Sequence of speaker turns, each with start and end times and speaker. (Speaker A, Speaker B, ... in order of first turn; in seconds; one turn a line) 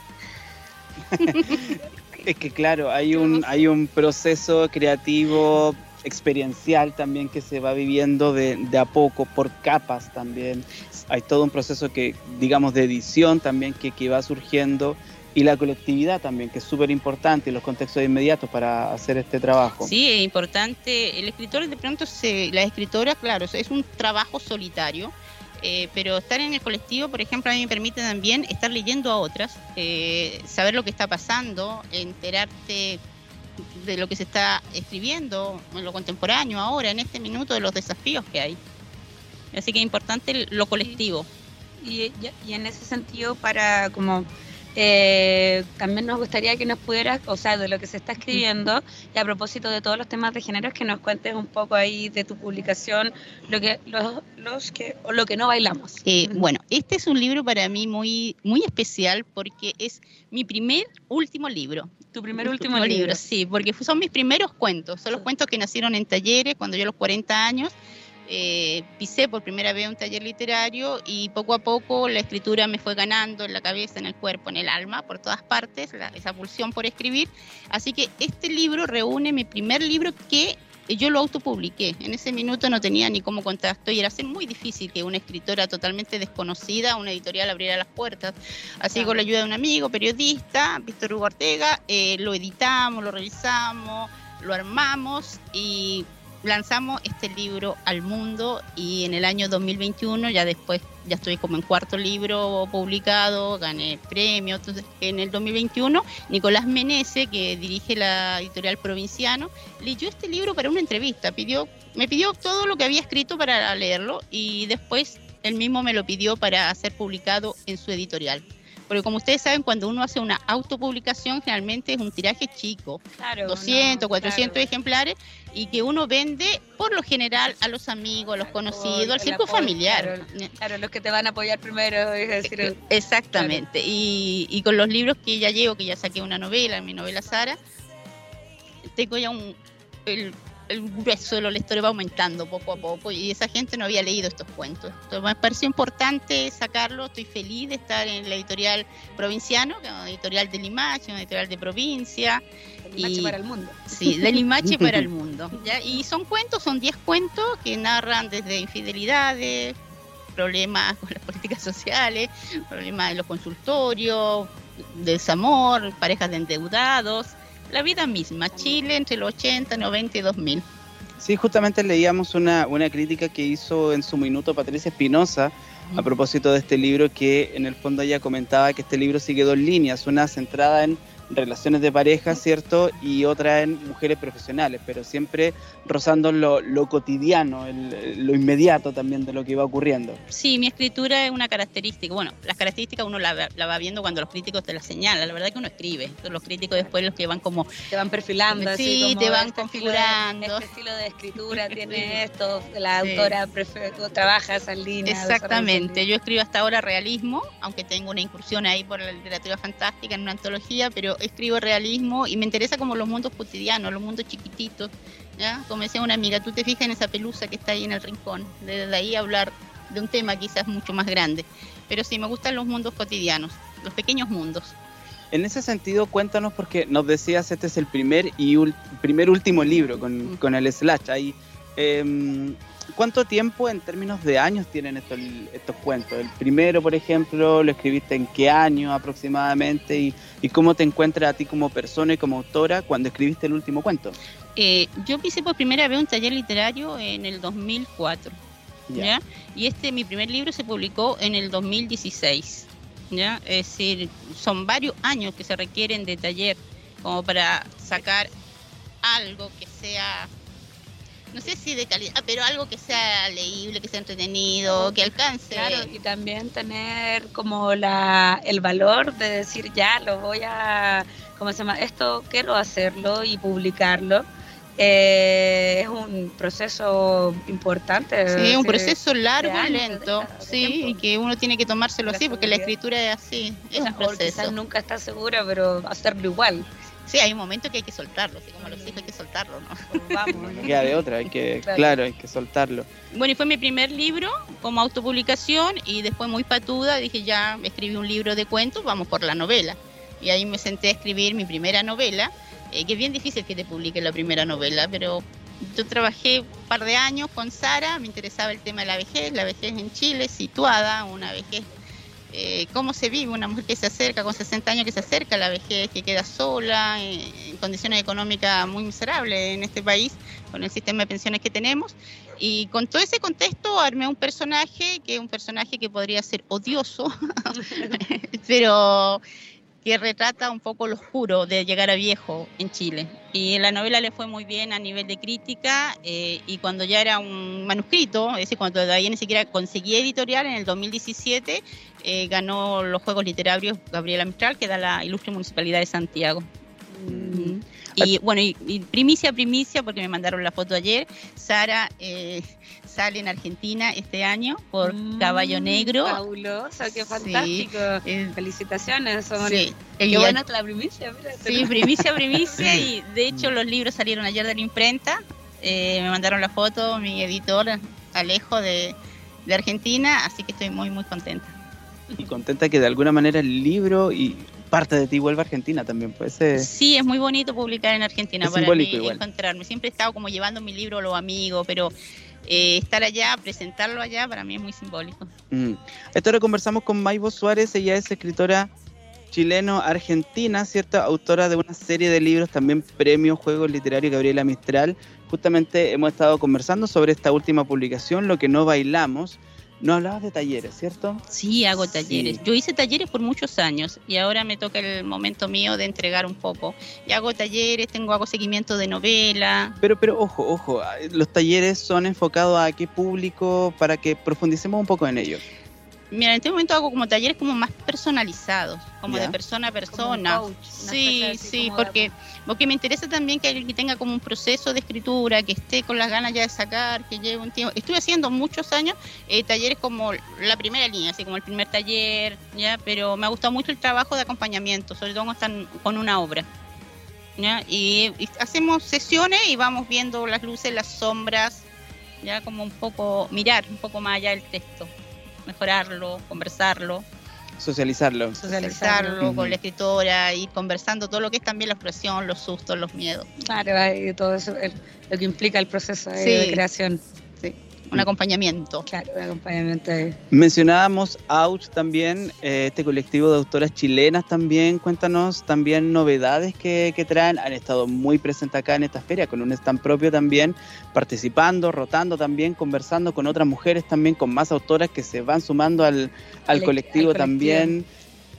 Speaker A: 1.1-19.9
Speaker B: 19.8-33.0
Speaker B: 33.6-38.6
Speaker B: 39.5-41.3
Speaker C: 41.8-56.4
Speaker B: 56.0-130.5
Speaker C: 62.1-63.2
Speaker C: 88.9-89.2
Speaker C: 123.2-124.6
Speaker C: 128.7-132.8
Speaker B: 132.4-137.6
Speaker C: 133.3-133.6
Speaker B: 138.9-152.4
Speaker C: 152.8-154.4
Speaker B: 153.0-153.3
Speaker B: 153.9-159.8
Speaker B: 160.3-170.6
Speaker A: 171.2-190.2
Speaker B: 190.3-197.7
Speaker C: 197.9-206.0
Speaker B: 198.5-200.7
Speaker B: 201.5-202.2
Speaker B: 203.0-203.3
Speaker B: 205.0-224.8
Speaker A: 225.3-244.2
Speaker B: 244.6-248.4
Speaker B: 248.9-258.3
Speaker B: 259.0-260.3
Speaker B: 261.3-265.9
Speaker C: 264.7-274.2
Speaker C: 274.8-281.0
Speaker B: 278.3-284.5
Speaker C: 282.1-282.7
Speaker C: 283.8-286.7
Speaker B: 287.1-290.8
Speaker C: 288.6-289.0
Speaker C: 289.9-292.0
Speaker A: 290.3-292.9
Speaker B: 293.1-311.7
Speaker B: 312.3-329.2
Speaker C: 327.6-328.0
Speaker B: 329.8-346.5
Speaker C: 346.9-347.6
Speaker B: 347.3-356.2
Speaker C: 354.8-362.3
Speaker B: 356.9-358.3
Speaker B: 359.4-360.4
Speaker B: 361.4-371.5
Speaker A: 372.2-376.7
Speaker B: 376.5-381.9
Speaker A: 378.4-379.2
Speaker B: 382.4-385.3
Speaker A: 385.5-388.7
Speaker A: 389.3-401.2
Speaker B: 401.3-409.8
Speaker A: 401.9-402.4
Speaker A: 409.8-415.4
Speaker B: 416.1-436.5
Speaker A: 419.1-419.4
Speaker C: 419.9-422.1
Speaker B: 437.4-441.7
Speaker B: 442.2-444.9
Speaker B: 445.4-447.1
Speaker A: 447.6-448.4
Speaker C: 448.4-449.2
Speaker B: 448.4-453.3
Speaker A: 449.2-449.6
Speaker C: 453.4-457.0
Speaker B: 456.1-456.6
Speaker B: 457.4-458.9
Speaker C: 458.9-460.2
Speaker A: 460.3-477.9
Speaker C: 476.5-477.7